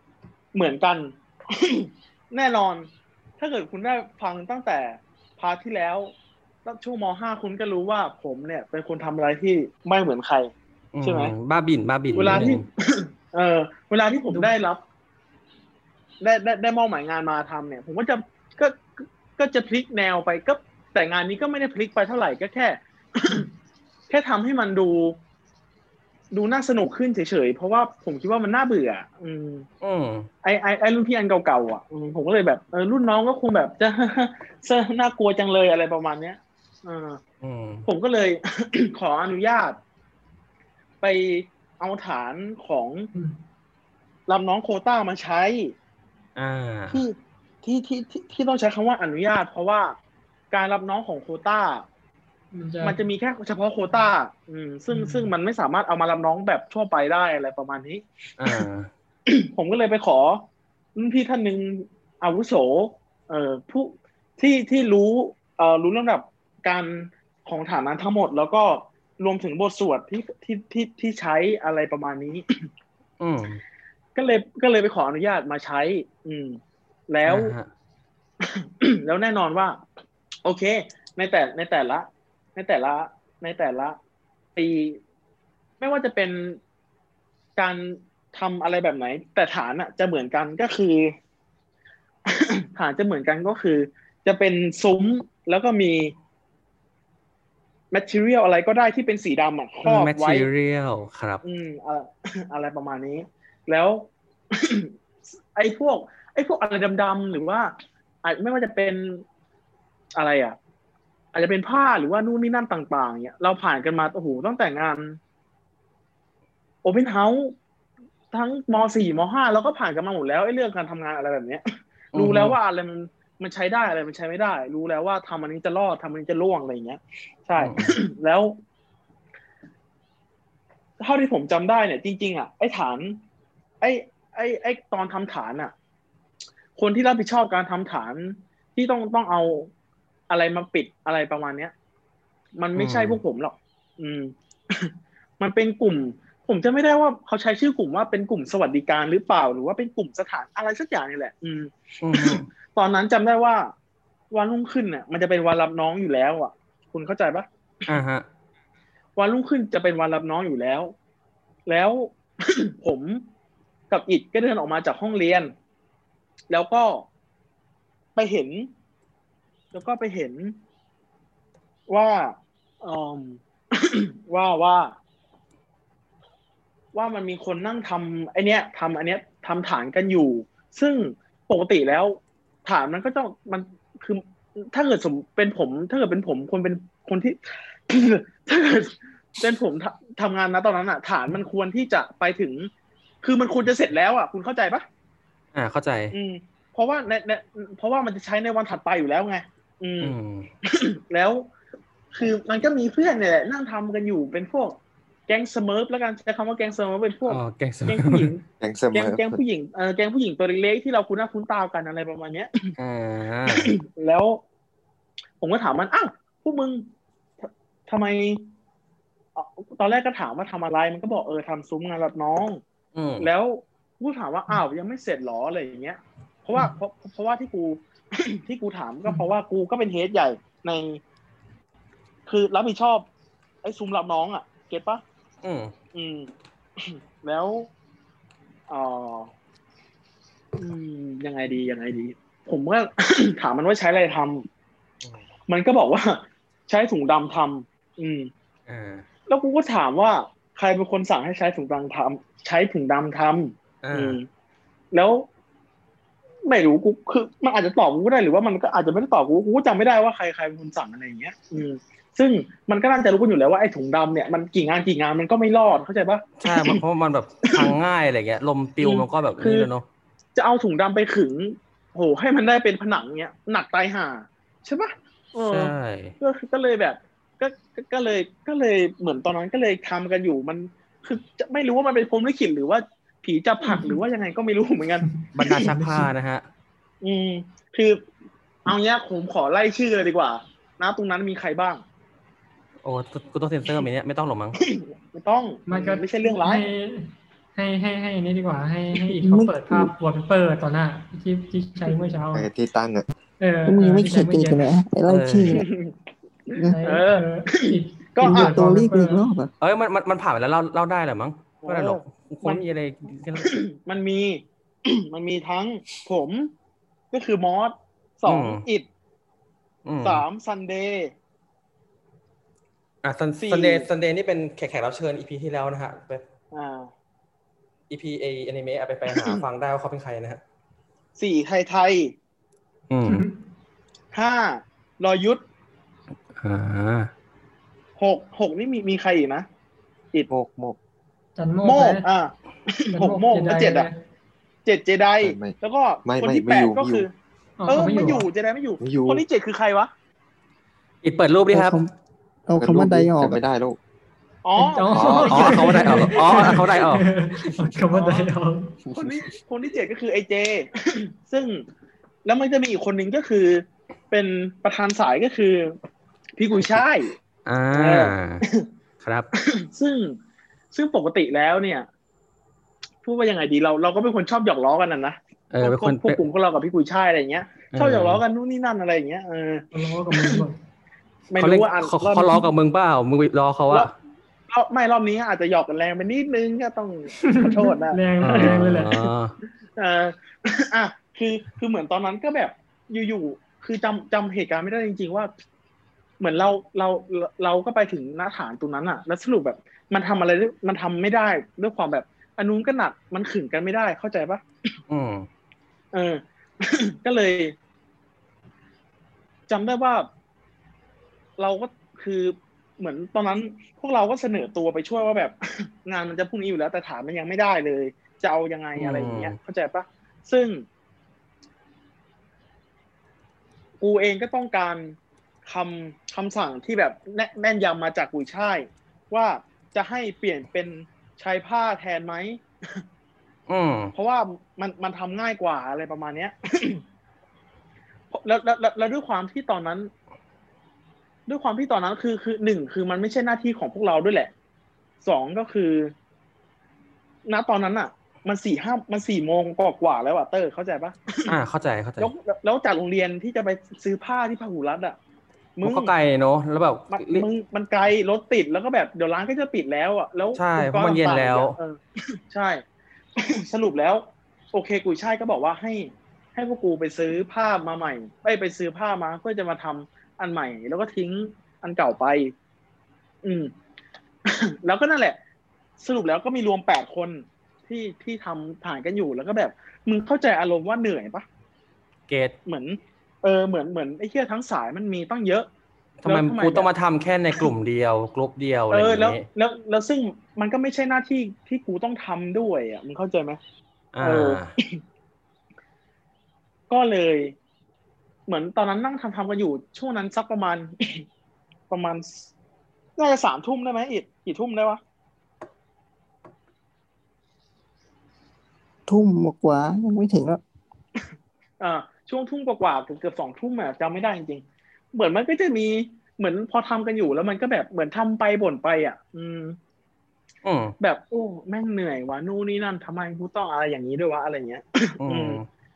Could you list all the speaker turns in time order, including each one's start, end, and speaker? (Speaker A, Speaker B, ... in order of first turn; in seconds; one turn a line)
Speaker A: 0.5-6.1
Speaker A: 6.6-10.5
Speaker B: 10.9-12.6
Speaker A: 11.0-11.3
Speaker A: 12.1-14.8
Speaker A: 16.2-23.5
Speaker A: 24.1-25.2
Speaker A: 26.3-29.6
Speaker B: 29.8-30.3
Speaker A: 30.4-37.2
Speaker B: 37.4-37.9
Speaker A: 37.9-39.8
Speaker A: 41.0-43.1
Speaker A: 44.3-45.7
Speaker B: 46.4-47.0
Speaker A: 46.9-50.0
Speaker A: 50.5-51.9
Speaker C: 52.5-53.0
Speaker A: 52.8-58.6
Speaker C: 54.9-55.3
Speaker B: 58.4-58.9
Speaker A: 59.3-72.5
Speaker B: 73.2-73.6
Speaker A: 74.1-77.5
Speaker B: 77.2-77.7
Speaker A: 78.4-79.8
Speaker A: 80.4-84.0
Speaker A: 84.5-85.0
Speaker A: 85.8-86.6
Speaker A: 87.5-91.1
Speaker A: 92.3-96.1
Speaker A: 97.9-100.5
Speaker B: 99.8-101.4
Speaker A: 101.4-104.9
Speaker A: 105.5-109.2
Speaker A: 110.1-110.6
Speaker A: 111.3-115.2
Speaker A: 116.8-117.6
Speaker A: 118.3-128.6
Speaker B: 122.1-122.6
Speaker B: 127.6-127.9
Speaker A: 131.0-133.2
Speaker A: 133.8-135.7
Speaker A: 136.8-139.7
Speaker A: 140.3-141.7
Speaker A: 142.6-153.7
Speaker B: 142.7-143.2
Speaker B: 152.0-152.4
Speaker A: 154.3-157.5
Speaker B: 157.9-158.2
Speaker A: 159.2-160.9
Speaker A: 161.7-163.3
Speaker A: 163.9-165.5
Speaker A: 166.5-167.1
Speaker A: 168.1-168.7
Speaker A: 169.7-170.6
Speaker A: 171.9-174.9
Speaker A: 176.9-192.7
Speaker A: 193.2-194.9
Speaker B: 195.5-196.1
Speaker A: 196.1-201.5
Speaker B: 200.0-200.5
Speaker A: 202.1-212.7
Speaker B: 207.3-208.3
Speaker D: 208.6-209.4
Speaker B: 212.8-213.7
Speaker A: 213.5-214.4
Speaker A: 215.4-216.9
Speaker A: 217.4-218.5
Speaker A: 219.3-222.6
Speaker B: 222.9-223.3
Speaker A: 223.2-231.0
Speaker A: 232.3-233.1
Speaker A: 233.6-235.0
Speaker B: 235.4-235.7
Speaker A: 235.9-237.7
Speaker A: 238.7-239.3
Speaker A: 240.6-244.5
Speaker A: 245.5-248.3
Speaker B: 248.7-249.1
Speaker A: 249.3-254.3
Speaker B: 253.8-254.2
Speaker A: 254.9-255.3
Speaker A: 256.4-266.8
Speaker B: 266.4-269.8
Speaker A: 268.8-269.7
Speaker A: 270.3-285.1
Speaker B: 275.4-276.1
Speaker C: 283.6-284.0
Speaker C: 285.1-286.1
Speaker B: 285.3-286.4
Speaker A: 287.0-288.1
Speaker A: 288.6-291.8
Speaker B: 292.8-294.6
Speaker A: 294.6-296.7
Speaker C: 295.7-302.5
Speaker E: 299.1-299.9
Speaker D: 302.3-303.1
Speaker C: 303.4-304.6
Speaker E: 303.6-305.7
Speaker B: 305.1-305.6
Speaker A: 305.5-305.9
Speaker A: 306.5-308.6
Speaker C: 306.6-309.2
Speaker E: 308.2-309.5
Speaker B: 309.6-313.5
Speaker A: 311.6-312.6
Speaker A: 313.4-316.5
Speaker A: 317.1-318.9
Speaker B: 318.3-318.6
Speaker B: 319.9-320.2
Speaker A: 320.0-321.1
Speaker B: 323.0-326.2
Speaker A: 323.4-323.9
Speaker A: 326.5-326.9
Speaker B: 327.9-330.4
Speaker A: 329.1-329.4
Speaker A: 331.2-332.1
Speaker B: 332.9-333.2
Speaker C: 333.1-333.4
Speaker A: 334.1-335.4
Speaker B: 336.4-337.1
Speaker A: 338.0-339.5
Speaker D: 340.3-340.8
Speaker C: 341.4-342.1
Speaker A: 341.6-343.9
Speaker C: 342.9-344.0
Speaker A: 344.6-347.1
Speaker D: 345.2-347.1
Speaker C: 347.6-348.2
Speaker A: 347.7-349.9
Speaker D: 348.8-349.2
Speaker B: 351.0-351.8
Speaker E: 351.5-351.9
Speaker E: 352.5-353.4
Speaker D: 352.6-353.8
Speaker A: 354.4-356.6
Speaker C: 354.6-358.7
Speaker D: 354.9-355.6
Speaker B: 355.2-357.1
Speaker A: 357.9-358.3
Speaker A: 358.9-361.6
Speaker A: 362.2-365.8
Speaker A: 366.4-367.1
Speaker B: 367.4-368.4
Speaker A: 367.7-368.7
Speaker B: 369.0-369.3
Speaker A: 369.4-370.2
Speaker A: 370.7-371.9
Speaker A: 373.0-380.4
Speaker B: 375.5-376.2
Speaker B: 377.7-378.2
Speaker C: 379.7-380.6
Speaker A: 381.3-382.4
Speaker B: 381.4-383.9
Speaker A: 384.5-388.6
Speaker C: 387.2-389.0
Speaker B: 388.2-389.3
Speaker A: 389.8-395.3
Speaker A: 396.2-404.4
Speaker B: 404.9-405.3
Speaker A: 405.9-407.6
Speaker A: 409.5-410.1
Speaker A: 411.4-420.6
Speaker B: 418.8-419.4
Speaker A: 423.8-432.8
Speaker B: 433.5-433.9
Speaker A: 433.9-436.8
Speaker A: 438.1-439.9
Speaker A: 441.3-444.3
Speaker A: 445.0-445.9
Speaker A: 447.3-451.3
Speaker B: 451.3-452.1
Speaker A: 452.0-455.0
Speaker A: 455.6-455.9
Speaker B: 455.6-457.3
Speaker A: 456.9-462.6
Speaker B: 460.3-461.6
Speaker A: 463.1-472.3
Speaker A: 473.2-473.5
Speaker A: 474.2-475.2
Speaker A: 475.8-481.3
Speaker B: 482.1-482.3
Speaker A: 482.4-485.5
Speaker B: 486.0-489.3
Speaker A: 486.1-486.7
Speaker A: 488.7-493.4
Speaker B: 493.9-494.6
Speaker A: 494.0-494.8
Speaker A: 496.7-497.3
Speaker A: 498.3-501.1
Speaker A: 501.7-502.3
Speaker A: 503.0-504.8
Speaker E: 508.9-510.4
Speaker A: 511.6-519.6
Speaker B: 520.4-520.7
Speaker A: 520.8-525.4
Speaker B: 525.0-525.4